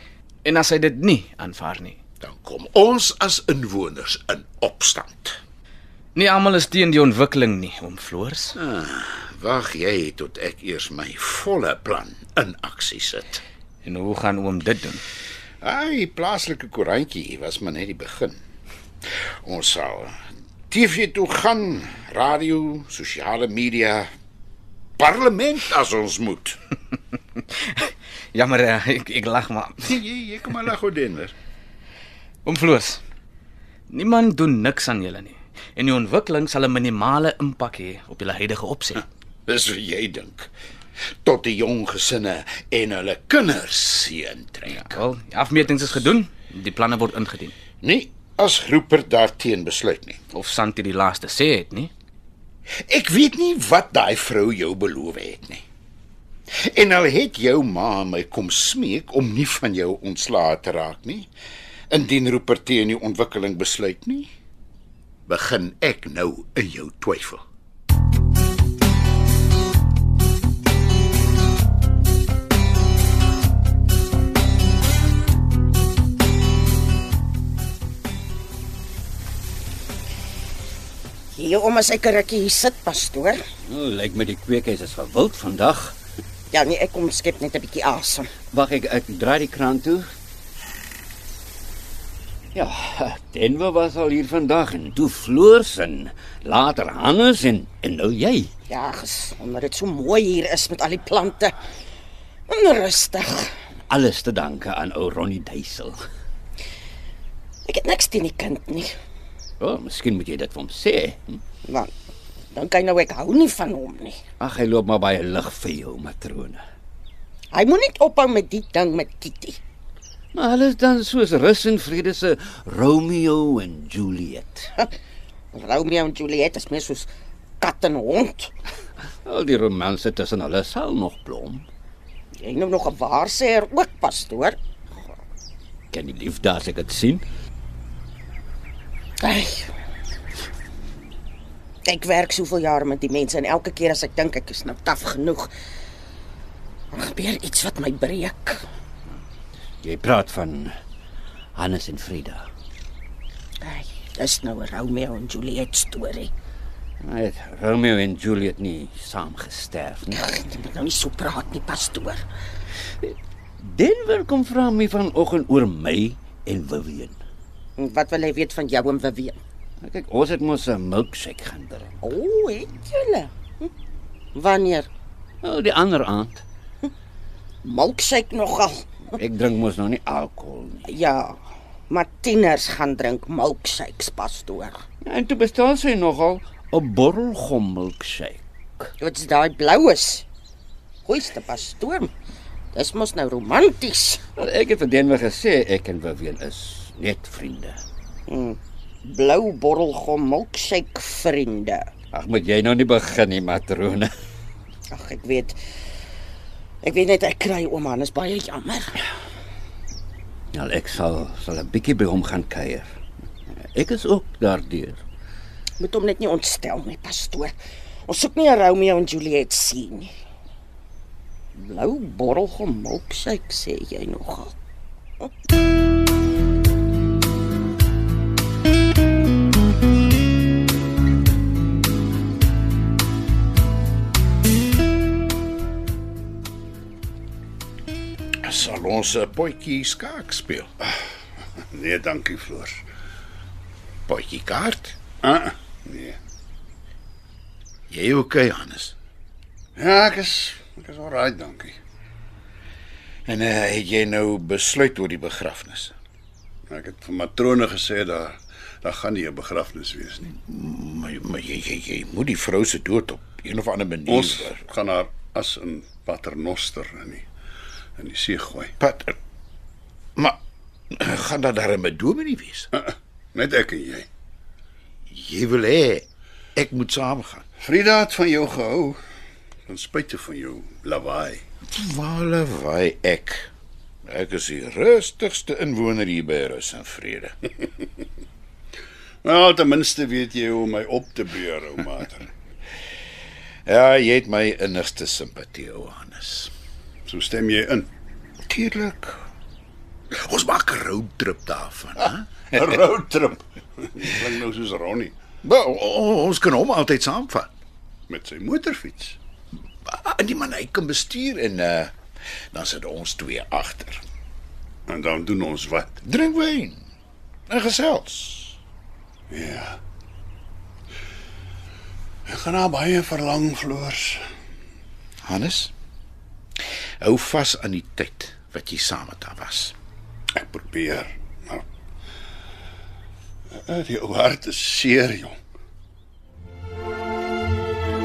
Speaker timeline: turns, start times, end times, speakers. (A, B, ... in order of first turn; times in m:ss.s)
0:00.4-0:02.0 A
0:02.2-0:05.4 B
0:06.1-0:08.6 A
0:08.6-0:13.4 B
0:13.8-0:15.0 A
0:15.6-0:18.4 B
0:19.4-0:20.2 B
0:20.7-0:24.1 B
0:25.0-0:26.6 B
0:27.6-0:30.0 A
0:29.8-0:31.3 B
0:32.4-0:33.0 A
0:33.9-0:39.0 A
0:39.5-0:40.5 B
0:41.2-0:45.0 B
0:44.7-0:47.5 A
0:47.8-0:50.2 B
0:50.3-0:51.9 A
0:52.9-0:55.6 B
0:56.5-1:01.3 B
1:01.9-1:04.3 B
1:05.3-1:07.4 B
1:21.3-1:23.4 C
1:23.7-1:26.0 D
1:26.5-1:28.3 C
1:28.5-1:30.1 D
1:32.5-1:38.5 D
1:38.7-1:41.5 C
1:42.5-1:43.5 C
1:43.9-1:46.0 D
1:47.6-1:48.9 C
1:49.6-1:51.4 D
1:52.5-1:54.2 C
1:54.4-1:56.6 D
1:57.5-1:59.6 C
2:00.3-2:04.7 D
2:05.5-2:07.1 C
2:07.6-2:08.5 C
2:09.2-2:11.6 D
2:12.4-2:14.6 C
2:15.9-2:17.2 D
2:19.2-2:19.7 C
2:21.8-2:25.5 C
2:26.9-2:28.6 C
2:29.8-2:30.7 D
2:31.5-2:32.4 D
2:33.6-2:36.3 C
2:37.0-2:40.2 D
2:40.1-2:42.2 C
2:43.0-2:47.2 D
2:47.8-2:49.4 C
2:49.8-2:51.9 D
2:52.0-2:53.7 C
2:54.3-2:54.9 C
2:55.4-2:56.4 D
2:57.6-2:58.8 C
2:59.1-3:00.9 D
3:00.8-3:01.4 C
3:01.9-3:04.8 C
3:05.0-3:08.9 D
3:09.0-3:10.2 C
3:11.0-3:12.1 C
3:12.7-3:14.2 C
3:14.4-3:17.8 D
3:18.3-3:21.8 C
3:22.1-3:24.1 D
3:24.9-3:25.6 C
3:26.8-3:29.0 C
3:30.5-3:32.9 D
3:33.7-3:35.0 D
3:35.8-3:40.1 C
3:41.6-3:44.5 C
3:58.4-4:00.7 B
4:01.7-4:02.8 E
4:04.1-4:05.0 B
4:05.2-4:06.2 E
4:07.9-4:08.9 B
4:09.8-4:11.8 E
4:13.2-4:15.9 B
4:16.7-4:20.3 E
4:20.3-4:24.6 B
4:24.1-4:27.2 E
4:28.0-4:28.7 E
4:28.8-4:29.2 B
4:30.9-4:32.7 B
4:32.8-4:34.1 E
4:35.1-4:37.4 B
4:37.6-4:39.0 E
4:39.7-4:41.4 E
4:41.7-4:43.5 B
4:44.0-4:47.4 B
4:49.2-4:52.3 E
4:53.7-4:56.5 B
4:57.1-4:57.9 E
4:58.5-4:59.2 B
5:00.1-5:02.7 B
5:02.5-5:03.4 E
5:03.9-5:05.2 E
5:05.4-5:07.5 B
5:08.1-5:09.2 E
5:09.8-5:11.9 B
5:12.5-5:14.0 B
5:14.9-5:15.9 E
5:16.0-5:16.8 B
5:17.5-5:18.6 B
5:19.3-5:19.8 E
5:22.3-5:24.2 E
5:25.2-5:25.7 B
5:27.0-5:29.7 B
5:30.4-5:31.6 E
5:33.7-5:35.4 E